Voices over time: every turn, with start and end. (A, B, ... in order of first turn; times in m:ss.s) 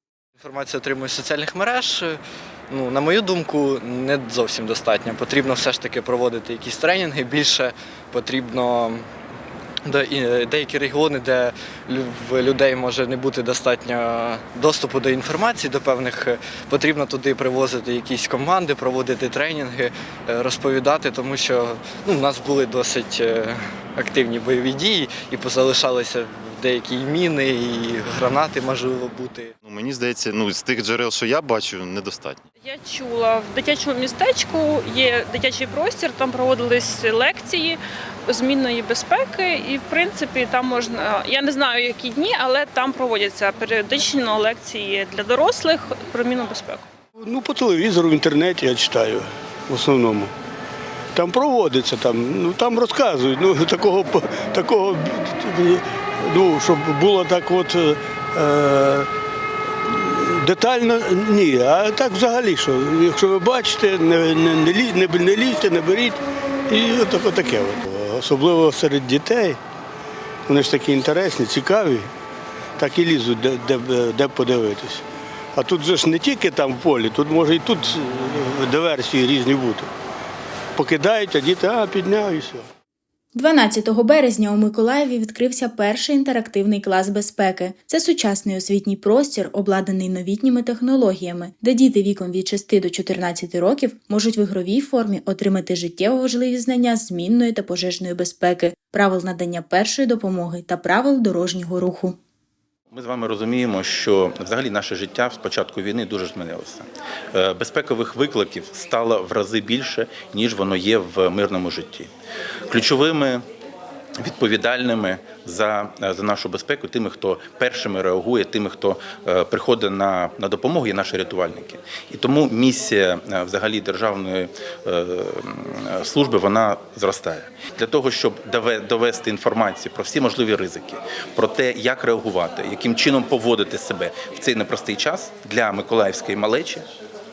0:00.4-0:09.0 A
0:09.8-0:29.5 A
0:29.6-0:32.4 B
0:32.7-0:37.7 C
0:38.4-0:46.8 C
0:47.2-0:50.3 D
0:51.1-0:59.1 D
0:59.9-1:09.6 D
1:10.5-1:12.1 D
1:12.8-1:15.0 D
1:15.5-1:19.9 D
1:20.7-1:22.7 D
1:23.3-1:42.2 E
1:42.9-1:52.1 F
1:52.7-1:53.4 F
1:54.2-2:16.8 F